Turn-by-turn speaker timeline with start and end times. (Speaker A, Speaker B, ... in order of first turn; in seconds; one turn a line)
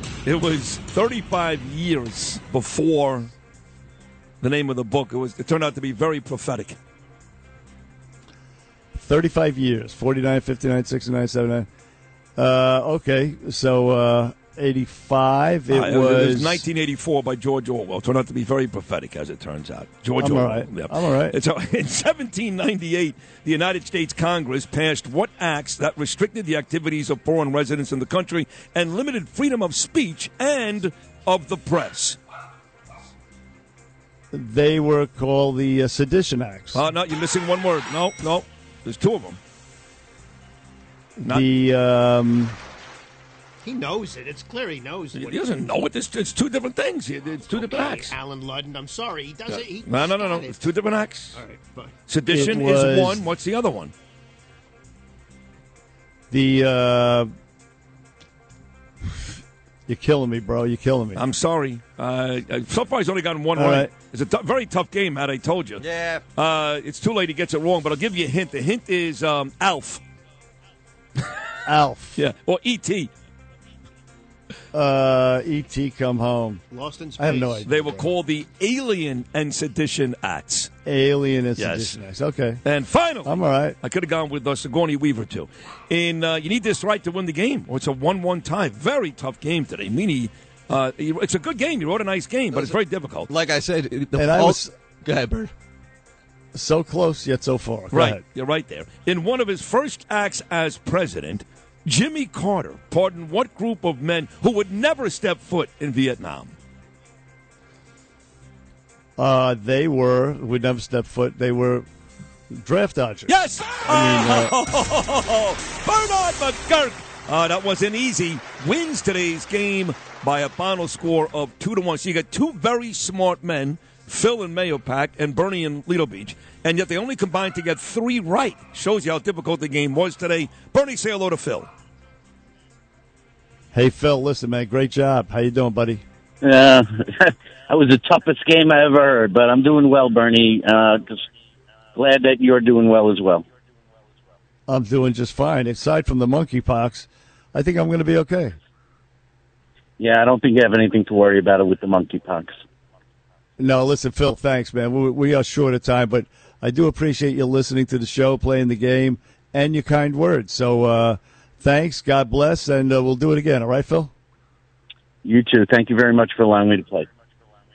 Speaker A: 0.2-3.3
Speaker A: 4.4-6.8
Speaker B: 8.9-11.7
Speaker B: 12.4-16.6
Speaker A: 15.7-32.2
Speaker B: 20.2-21.4
Speaker B: 34.3-36.9
Speaker A: 36.7-39.4
Speaker B: 41.2-42.6
Speaker C: 43.6-45.5
Speaker A: 45.1-48.1
Speaker C: 47.5-50.7
Speaker A: 49.5-51.4
Speaker C: 51.3-51.9
Speaker A: 52.1-53.9
Speaker B: 52.3-53.3
Speaker B: 56.3-57.3
Speaker B: 59.9-61.2
Speaker A: 61.2-70.0
Speaker B: 63.5-63.9
Speaker D: 65.8-66.2
Speaker B: 71.7-72.2
Speaker A: 72.2-73.1
Speaker B: 74.7-76.6
Speaker C: 76.7-77.7
Speaker B: 77.2-78.1
Speaker A: 77.7-80.7
Speaker B: 80.8-82.6
Speaker A: 81.6-82.0
Speaker A: 82.6-93.3
Speaker B: 83.2-83.8
Speaker D: 92.5-92.8
Speaker D: 93.3-95.5
Speaker B: 94.2-94.7
Speaker B: 96.5-98.2
Speaker A: 97.9-106.5
Speaker B: 109.2-111.9
Speaker B: 112.5-114.5
Speaker A: 113.3-131.7
Speaker B: 133.7-136.0
Speaker E: 136.4-141.2
Speaker E: 141.9-143.4
Speaker B: 144.7-148.6
Speaker E: 150.0-152.5
Speaker B: 153.6-164.1
Speaker E: 165.2-167.1